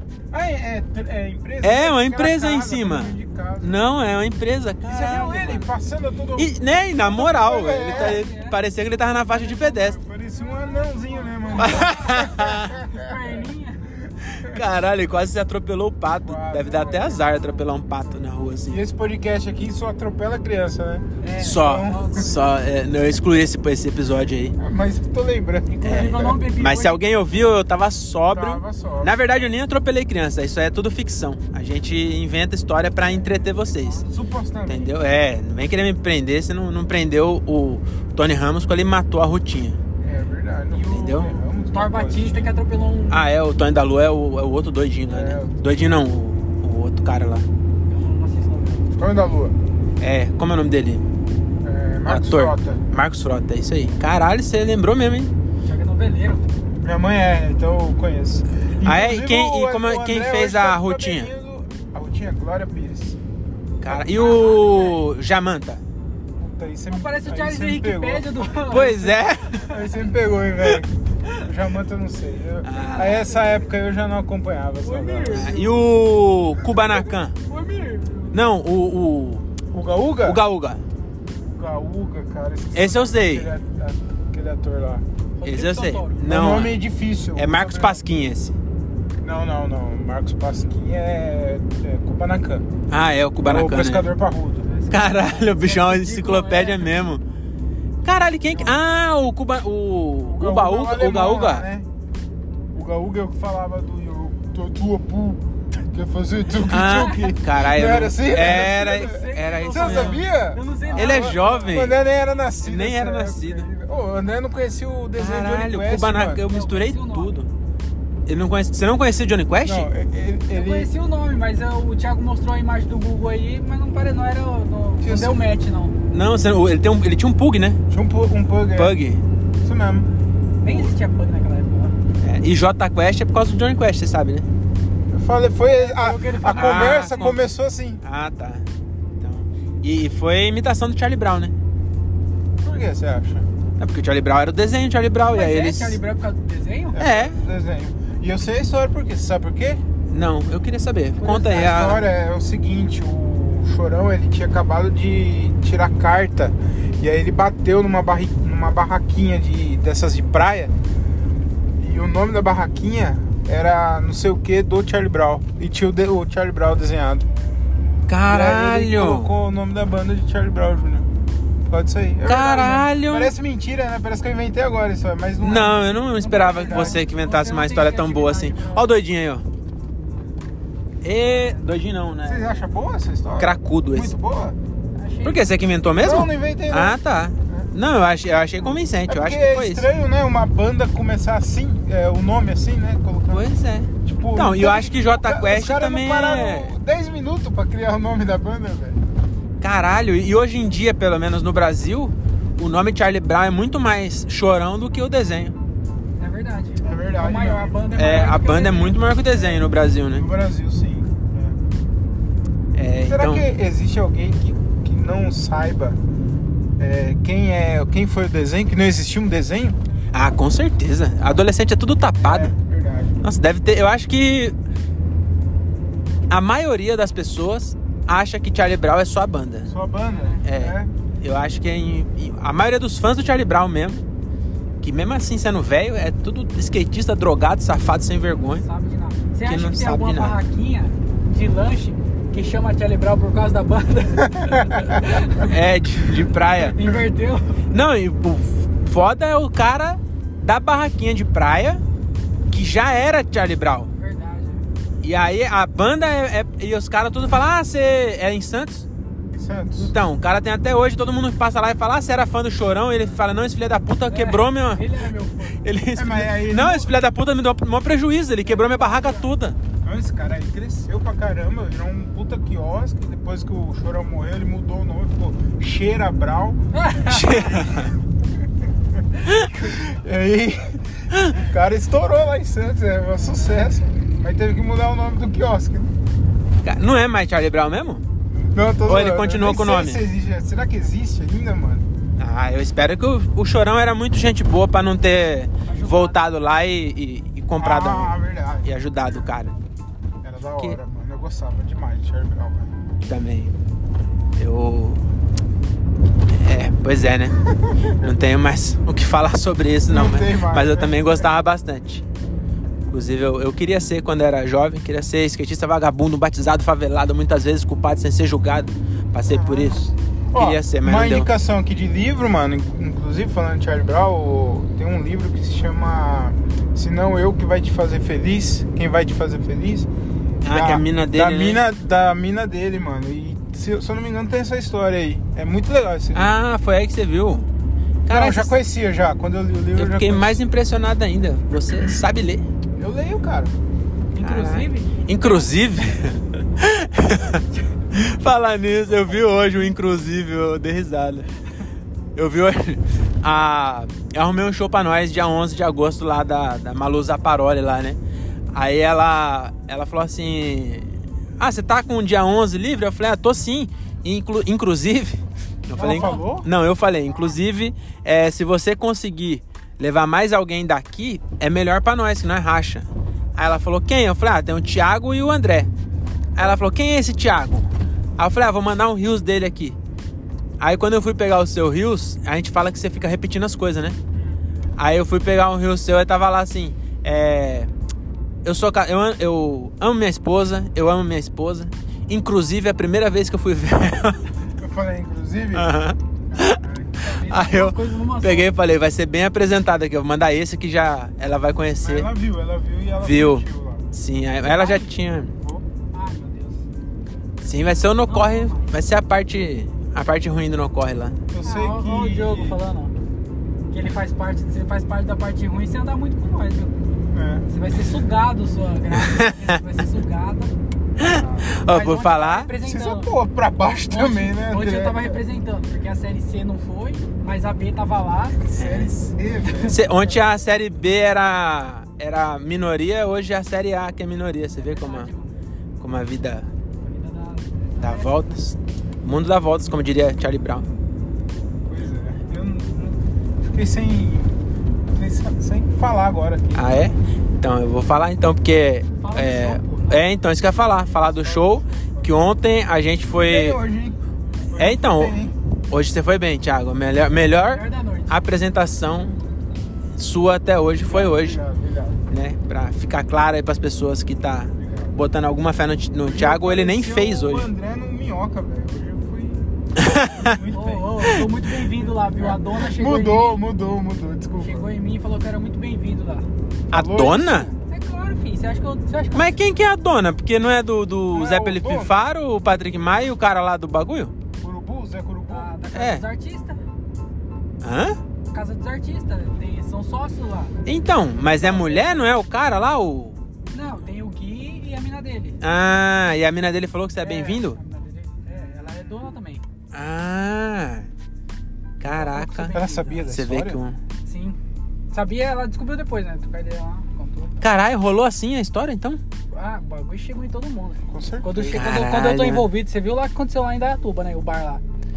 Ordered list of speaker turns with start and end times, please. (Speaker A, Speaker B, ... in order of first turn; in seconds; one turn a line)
Speaker A: 0.3-3.9
Speaker B: 1.6-5.7
Speaker A: 4.8-8.2
Speaker B: 6.4-10.0
Speaker C: 7.8-8.6
Speaker A: 9.3-13.4
Speaker C: 10.3-13.9
Speaker B: 11.6-12.8
Speaker A: 14.0-14.6
Speaker B: 14.3-18.8
Speaker A: 16.2-17.3
Speaker C: 16.9-17.6
Speaker A: 18.7-22.3
Speaker C: 21.2-22.6
Speaker B: 21.4-24.6
Speaker A: 24.6-26.4
Speaker C: 25.7-27.0
Speaker B: 25.8-34.0
Speaker A: 28.3-29.2
Speaker C: 33.1-34.0
Speaker A: 34.0-34.9
Speaker B: 34.7-39.8
Speaker A: 40.0-42.5
Speaker C: 40.7-43.2
Speaker B: 40.9-41.3
Speaker B: 43.1-47.5
Speaker A: 45.1-45.7
Speaker C: 47.9-48.9
Speaker A: 48.9-49.6
Speaker B: 50.0-51.0
Speaker A: 51.6-52.8
Speaker B: 52.0-55.3
Speaker C: 55.6-56.5
Speaker A: 56.8-63.2
Speaker B: 58.8-61.3
Speaker B: 63.8-65.8
Speaker C: 63.9-65.0
Speaker A: 66.4-68.3
Speaker C: 66.9-69.8
Speaker B: 68.7-69.6
Speaker A: 69.7-75.6
Speaker B: 72.6-73.2
Speaker C: 72.7-73.7
Speaker C: 74.8-75.9
Speaker B: 75.3-77.3
Speaker C: 77.5-78.4
Speaker B: 78.3-79.5
Speaker A: 79.7-80.4
Speaker B: 80.2-80.8
Speaker A: 81.5-85.0
Speaker B: 82.7-83.5
Speaker C: 85.4-86.2
Speaker B: 85.4-86.8
Speaker A: 86.2-88.0
Speaker B: 87.3-88.5
Speaker A: 89.2-92.7
Speaker B: 92.9-94.1
Speaker A: 93.4-94.7
Speaker C: 94.7-96.9
Speaker B: 94.9-97.2
Speaker B: 98.0-101.7
Speaker A: 98.5-98.8
Speaker A: 100.2-101.9
Speaker A: 102.7-116.4
Speaker B: 106.6-110.2
Speaker C: 106.8-107.3
Speaker C: 108.4-111.8
Speaker B: 110.9-112.0
Speaker B: 112.6-113.7
Speaker B: 115.2-117.5
Speaker C: 116.5-117.3
Speaker B: 118.3-119.9
Speaker A: 119.6-120.9
Speaker C: 120.5-126.0
Speaker A: 125.0-125.4
Speaker B: 126.1-127.8
Speaker A: 127.9-128.9
Speaker B: 128.7-129.2
Speaker A: 129.6-130.1
Speaker C: 130.6-131.9
Speaker B: 130.6-130.9
Speaker B: 132.2-134.4
Speaker A: 135.1-138.0
Speaker C: 135.7-137.3
Speaker B: 136.5-137.4
Speaker B: 138.0-138.7
Speaker B: 139.2-141.5
Speaker A: 142.6-143.5
Speaker B: 143.8-146.0
Speaker C: 145.3-147.0
Speaker A: 146.9-149.8
Speaker B: 146.9-147.4
Speaker B: 150.1-152.1
Speaker A: 151.2-160.7
Speaker C: 151.2-151.5
Speaker A: 161.8-167.3
Speaker B: 168.1-169.3
Speaker A: 168.3-171.1
Speaker A: 171.7-177.0
Speaker B: 172.2-173.3
Speaker B: 175.4-179.4
Speaker C: 176.2-178.9
Speaker B: 181.0-182.5
Speaker C: 181.2-181.7
Speaker A: 182.2-184.6
Speaker B: 183.4-184.1
Speaker C: 184.9-185.5
Speaker B: 185.2-189.8
Speaker A: 186.0-187.7
Speaker A: 189.1-193.5
Speaker B: 193.3-196.7
Speaker A: 194.0-199.0
Speaker B: 199.6-205.6
Speaker C: 206.2-209.0
Speaker A: 206.8-208.3
Speaker B: 207.9-210.3
Speaker A: 209.3-211.6
Speaker B: 212.7-213.4
Speaker A: 213.1-216.0
Speaker A: 216.8-219.8
Speaker B: 220.1-222.5
Speaker A: 222.2-223.2
Speaker B: 223.2-224.5
Speaker B: 226.3-229.7
Speaker A: 229.6-230.9
Speaker C: 230.1-230.4
Speaker B: 230.4-234.0
Speaker B: 234.8-238.6
Speaker C: 238.5-245.5
Speaker B: 239.4-240.4
Speaker A: 244.2-245.0
Speaker B: 245.3-246.8
Speaker C: 246.4-247.6
Speaker B: 247.7-251.8
Speaker B: 252.5-253.9
Speaker C: 253.9-254.7
Speaker B: 255.0-258.9
Speaker A: 259.3-259.9
Speaker B: 259.8-264.9
Speaker C: 264.1-265.6
Speaker B: 265.6-269.6
Speaker A: 265.9-266.9
Speaker C: 268.4-269.3
Speaker A: 269.8-276.6
Speaker C: 276.7-277.6
Speaker B: 277.0-277.9
Speaker A: 277.5-277.8
Speaker B: 279.2-279.7
Speaker A: 279.5-285.9
Speaker B: 281.1-281.4
Speaker C: 283.2-283.6
Speaker B: 286.6-288.0
Speaker A: 288.3-291.9
Speaker B: 288.9-290.0
Speaker B: 292.2-299.5
Speaker C: 295.6-296.2
Speaker A: 297.6-298.7
Speaker A: 300.2-302.7
Speaker B: 303.1-303.5
Speaker B: 304.4-305.0
Speaker B: 306.3-307.4
Speaker A: 307.6-307.9
Speaker B: 307.9-312.0
Speaker A: 309.9-311.2
Speaker B: 312.9-321.3
Speaker A: 319.2-329.9
Speaker B: 330.4-331.6
Speaker A: 330.4-336.3
Speaker B: 336.1-337.5
Speaker B: 338.1-338.6
Speaker A: 338.1-340.4
Speaker B: 339.8-342.4
Speaker A: 342.8-343.6
Speaker C: 344.1-345.6
Speaker B: 344.2-351.3
Speaker A: 349.1-349.4
Speaker B: 352.1-358.0
Speaker B: 358.5-375.7
Speaker C: 365.8-366.2
Speaker A: 365.8-366.5
Speaker B: 376.3-379.8
Speaker B: 380.6-384.0
Speaker A: 384.1-384.4
Speaker B: 384.8-387.7
Speaker B: 388.4-394.2
Speaker A: 394.6-395.7
Speaker B: 395.5-402.1
Speaker A: 396.3-397.0
Speaker C: 397.0-398.5
Speaker A: 401.8-403.9
Speaker B: 403.0-405.3
Speaker C: 404.4-404.9
Speaker C: 405.9-406.6
Speaker B: 407.4-411.1
Speaker C: 408.0-408.7
Speaker A: 411.3-412.6
Speaker C: 411.4-412.9
Speaker C: 413.7-416.8
Speaker A: 417.1-417.4
Speaker C: 417.5-420.5
Speaker B: 418.9-419.6
Speaker B: 421.0-422.5
Speaker A: 421.0-421.5
Speaker C: 421.6-423.1
Speaker A: 422.6-425.2
Speaker C: 423.9-429.8
Speaker B: 428.5-429.0
Speaker A: 428.6-430.2
Speaker B: 429.6-435.1
Speaker C: 434.6-435.3
Speaker B: 435.8-436.5
Speaker C: 436.8-438.3
Speaker B: 437.8-440.7
Speaker A: 441.6-444.4
Speaker A: 444.9-446.8
Speaker B: 446.5-453.6
Speaker C: 449.0-450.0
Speaker A: 450.8-452.2
Speaker A: 453.2-454.0
Speaker A: 454.5-455.3
Speaker B: 454.6-455.2
Speaker B: 455.7-459.2
Speaker C: 457.4-458.2
Speaker B: 459.9-461.4
Speaker A: 460.8-462.0
Speaker B: 462.1-467.5
Speaker A: 464.6-465.0
Speaker A: 466.0-471.1
Speaker B: 469.8-470.4
Speaker C: 470.5-473.4
Speaker A: 471.9-474.7
Speaker C: 474.4-476.3
Speaker A: 476.7-477.5
Speaker B: 476.7-477.5
Speaker C: 477.6-479.4
Speaker B: 479.1-484.1
Speaker A: 481.1-482.0
Speaker A: 484.4-485.5
Speaker C: 485.3-486.6
Speaker B: 485.7-486.0
Speaker B: 487.6-488.0
Speaker C: 488.3-490.6
Speaker B: 490.6-493.2
Speaker C: 491.4-492.0
Speaker C: 493.5-495.4
Speaker B: 495.4-497.6
Speaker C: 497.0-499.4
Speaker B: 499.7-500.9
Speaker B: 501.8-503.8
Speaker C: 501.8-503.1
Speaker A: 502.5-503.6
Speaker C: 504.0-504.4
Speaker C: 504.9-507.4
Speaker B: 507.4-509.0
Speaker C: 509.3-514.6
Speaker A: 510.9-511.6
Speaker B: 511.5-512.5